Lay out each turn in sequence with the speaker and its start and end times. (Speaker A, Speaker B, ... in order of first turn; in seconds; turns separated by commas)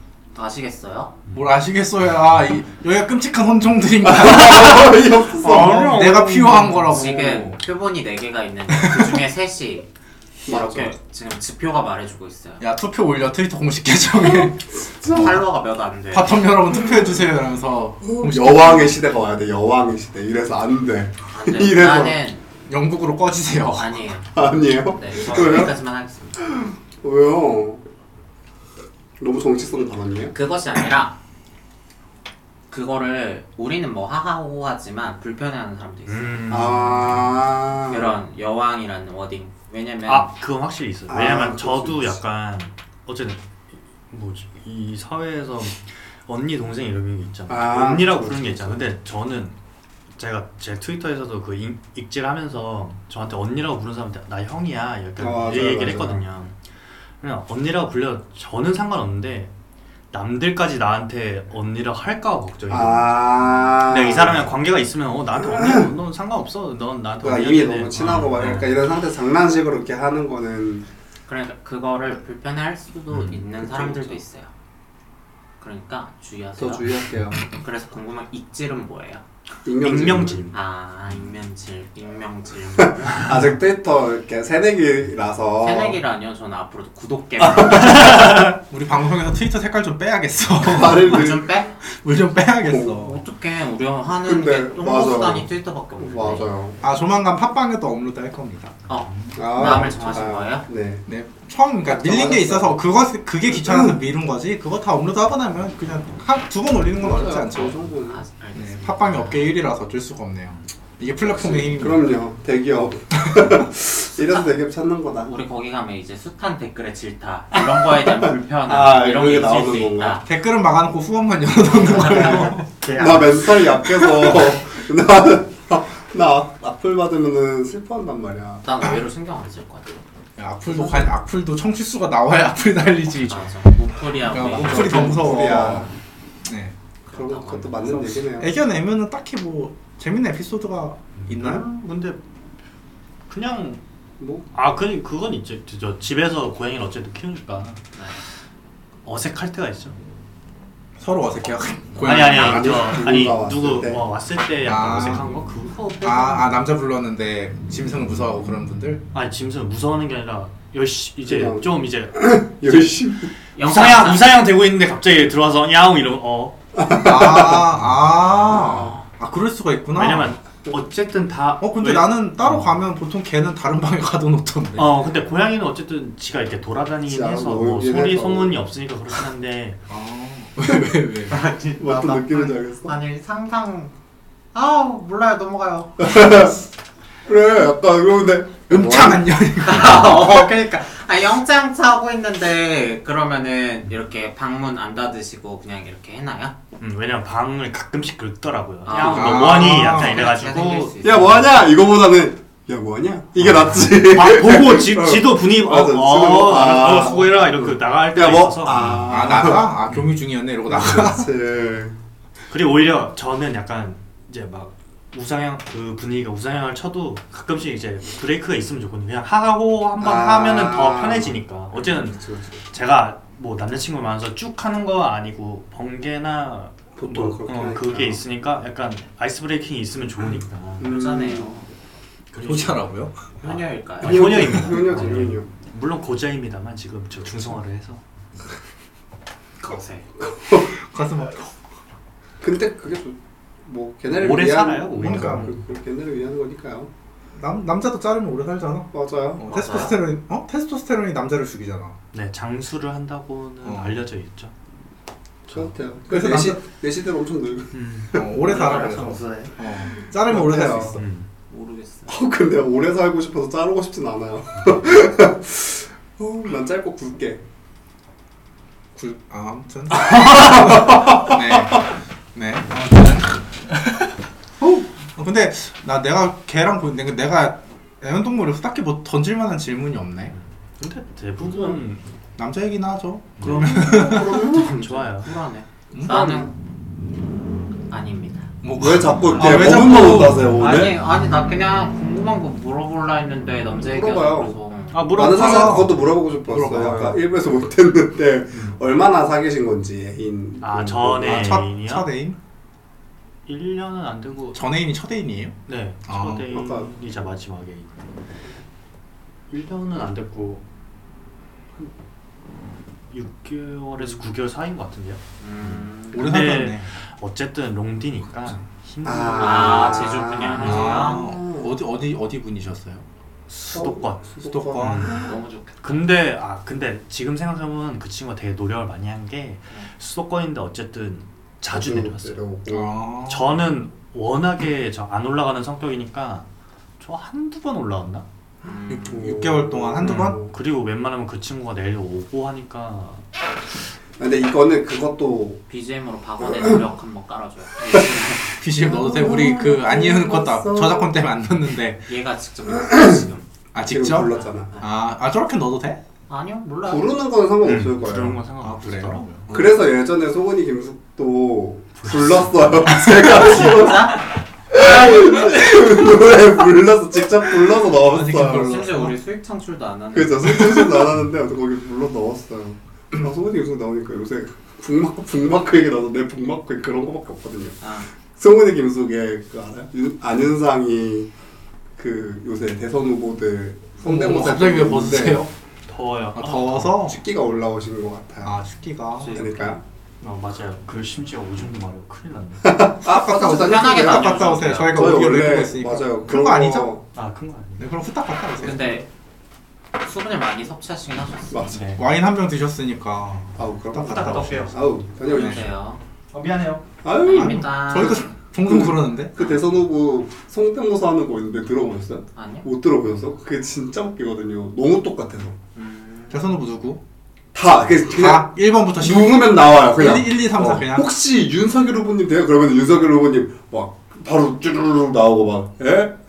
Speaker A: 0.3-1.2, Speaker B: 1.3-7.6, Speaker C: 4.0-5.9, Speaker D: 4.2-7.0, Speaker A: 6.8-9.9, Speaker B: 8.7-9.2, Speaker C: 10.5-10.9, Speaker A: 10.5-12.6, Speaker B: 12.6-15.5, Speaker C: 14.2-15.3, Speaker A: 15.1-16.4, Speaker B: 16.1-19.0, Speaker C: 18.0-22.2, Speaker A: 21.3-22.4, Speaker B: 22.7-24.1, Speaker A: 23.8-24.3, Speaker C: 24.4-25.7, Speaker A: 24.9-26.5, Speaker C: 26.4-27.8, Speaker C: 29.2-30.3, Speaker A: 30.3-31.2, Speaker A: 32.7-36.5, Speaker D: 36.1-37.4, Speaker C: 36.5-38.1, Speaker A: 37.9-40.3, Speaker D: 40.1-43.4, Speaker C: 41.1-42.2, Speaker D: 44.1-49.6, Speaker C: 47.5-48.9, Speaker D: 50.2-56.5, Speaker C: 55.2-56.2, Speaker D: 57.2-59.5, Speaker D: 60.1-68.7, Speaker C: 62.7-64.5, Speaker C: 65.4-65.9, Speaker C: 67.2-70.9, Speaker A: 71.3-74.5, Speaker D: 73.1-73.4, Speaker C: 73.6-74.2, Speaker A: 75.6-79.2, Speaker C: 76.6-77.4, Speaker C: 79.7-80.4, Speaker D: 79.8-80.5, Speaker A: 80.5-83.3, Speaker C: 82.8-86.0, Speaker A: 85.6-88.2, Speaker C: 87.5-88.3, Speaker D: 87.7-88.6, Speaker B: 88.7-93.2, Speaker C: 90.6-91.5, Speaker A: 90.8-91.8, Speaker C: 92.7-92.9, Speaker A: 92.9-96.5, Speaker C: 94.2-95.5, Speaker C: 96.0-96.8, Speaker B: 96.8-98.8, Speaker A: 98.9-100.7, Speaker D: 99.1-99.4, Speaker C: 99.3-101.0, Speaker B: 101.1-107.9, Speaker C: 101.8-102.8, Speaker C: 103.5-104.0, Speaker C: 107.0-108.2, Speaker A: 108.0-109.5, Speaker B: 108.5-112.1, Speaker C: 111.2-115.3, Speaker B: 113.2-113.7, Speaker A: 115.2-120.2, Speaker C: 117.8-120.2, Speaker B: 120.2-122.7, Speaker A: 121.7-122.6, Speaker C: 121.8-128.7, Speaker D: 122.0-123.3, Speaker B: 123.9-124.5, Speaker A: 128.6-130.0, Speaker B: 130.4-133.6, Speaker C: 130.7-131.1, Speaker A: 133.1-135.8, Speaker B: 134.2-135.9, Speaker C: 134.4-135.9, Speaker B: 136.4-136.8, Speaker A: 137.1-138.2, Speaker C: 137.1-138.5, Speaker B: 138.3-141.6, Speaker D: 141.2-142.2, Speaker D: 143.3-143.8, Speaker C: 144.2-144.5, Speaker D: 144.5-147.8, Speaker A: 148.0-148.2, Speaker D: 149.1-150.0, Speaker B: 151.0-152.8, Speaker D: 152.0-156.5, Speaker C: 152.2-154.0, Speaker B: 154.7-155.4, Speaker B: 156.0-159.0, Speaker D: 159.1-162.9, Speaker C: 161.3-163.3, Speaker A: 163.6-164.4, Speaker D: 163.6-166.6, Speaker C: 166.8-167.7, Speaker B: 166.9-170.3, Speaker C: 168.5-169.0, Speaker D: 169.9-172.8, Speaker B: 171.6-174.9, Speaker D: 174.8-179.8, Speaker C: 177.1-178.6, Speaker B: 179.9-181.4, Speaker A: 181.3-183.9, Speaker C: 181.8-182.9, Speaker A: 184.5-186.4, Speaker C: 186.0-186.6, Speaker C: 187.3-189.3, Speaker B: 188.7-190.5, Speaker A: 189.6-196.6, Speaker D: 196.8-200.9, Speaker A: 198.9-201.6, Speaker B: 199.0-200.3, Speaker C: 201.0-209.8, Speaker D: 203.6-209.3, Speaker B: 209.1-211.3, Speaker C: 210.7-212.0, Speaker D: 212.5-230.9, Speaker C: 220.0-222.6, Speaker C: 227.0-228.2, Speaker C: 230.8-231.6, Speaker A: 230.8-231.7, Speaker D: 232.3-232.9, Speaker B: 232.4-233.3, Speaker A: 233.4-234.4, Speaker D: 233.4-238.0, Speaker C: 234.0-235.5, Speaker A: 239.6-240.1, Speaker C: 240.2-240.7, Speaker B: 240.8-241.5, Speaker C: 242.4-246.9, Speaker D: 244.1-245.6, Speaker B: 245.0-245.5, Speaker B: 247.4-252.0, Speaker C: 248.9-249.9, Speaker A: 249.5-250.0, Speaker D: 252.1-254.5, Speaker B: 253.6-254.0, Speaker D: 255.5-255.7, Speaker C: 255.5-258.2, Speaker B: 256.1-256.6, Speaker D: 257.7-259.3, Speaker B: 258.1-261.0, Speaker A: 258.4-259.5, Speaker C: 260.2-261.0, Speaker D: 261.0-261.3, Speaker A: 261.5-262.1, Speaker C: 262.1-267.4, Speaker B: 269.0-280.3, Speaker C: 269.9-271.5, Speaker D: 280.3-282.1, Speaker C: 281.4-281.8, Speaker B: 282.4-284.4, Speaker D: 283.4-285.3, Speaker A: 283.5-286.5, Speaker C: 283.6-284.8, Speaker B: 285.9-286.2, Speaker C: 286.1-286.5, Speaker A: 287.9-288.5, Speaker B: 288.6-290.6, Speaker C: 288.8-291.0, Speaker D: 289.2-289.7, Speaker A: 289.8-295.1, Speaker C: 293.9-294.6, Speaker D: 294.9-295.9, Speaker C: 295.1-301.6, Speaker B: 295.2-297.2, Speaker D: 298.5-298.8, Speaker D: 300.6-302.1, Speaker B: 301.2-302.4, Speaker D: 303.5-304.6, Speaker B: 304.5-305.6, Speaker D: 305.7-308.0, Speaker B: 306.1-306.5, Speaker C: 306.5-306.9, Speaker D: 309.5-310.6, Speaker D: 313.1-320.2, Speaker A: 315.4-316.3, Speaker B: 316.1-316.9, Speaker C: 319.0-321.7, Speaker A: 319.4-321.3, Speaker B: 320.6-323.1, Speaker D: 323.5-325.3, Speaker C: 323.7-325.4, Speaker B: 324.4-325.2, Speaker A: 325.2-326.1, Speaker D: 325.8-332.4, Speaker C: 331.7-333.0, Speaker B: 332.7-333.6, Speaker D: 333.3-336.5, Speaker D: 337.0-338.2, Speaker A: 338.6-339.4, Speaker B: 338.9-340.4, Speaker C: 339.1-340.5, Speaker D: 340.0-343.2, Speaker C: 344.2-345.6, Speaker A: 345.7-348.6, Speaker C: 346.5-346.8, Speaker B: 348.6-352.1, Speaker C: 348.8-351.1, Speaker A: 352.1-353.5, Speaker C: 352.7-353.2, Speaker B: 353.7-356.0, Speaker C: 353.8-354.7, Speaker A: 354.4-354.9, Speaker A: 356.3-357.1, Speaker C: 356.9-358.4, Speaker D: 357.6-359.6, Speaker B: 358.6-359.7, Speaker C: 359.5-364.2, Speaker D: 362.0-363.0, Speaker A: 362.9-364.3, Speaker C: 364.7-368.8, Speaker B: 367.9-369.1, Speaker A: 368.3-370.9, Speaker C: 370.1-377.8, Speaker A: 377.8-378.1, Speaker C: 378.4-381.3, Speaker C: 382.0-385.5, Speaker B: 384.0-385.5, Speaker D: 385.9-386.9, Speaker B: 386.4-387.2, Speaker C: 386.9-388.6, Speaker B: 388.4-389.4, Speaker D: 389.2-392.8, Speaker C: 389.3-389.8, Speaker C: 392.6-397.0, Speaker B: 393.0-396.9, Speaker A: 393.4-395.1, Speaker D: 397.1-397.9, Speaker B: 397.8-399.0, Speaker A: 398.6-399.1, Speaker A: 400.0-401.6, Speaker C: 401.5-401.9, Speaker D: 401.7-402.0, Speaker B: 402.0-405.7, Speaker C: 403.6-405.7, Speaker D: 403.9-405.2, Speaker A: 405.2-406.0, Speaker D: 406.3-406.8, Speaker C: 407.0-415.6, Speaker A: 407.2-408.4, Speaker B: 407.3-409.4, Speaker A: 412.4-412.7, Speaker A: 415.8-416.6, Speaker B: 416.3-417.0, Speaker C: 417.5-426.2, Speaker B: 418.1-421.1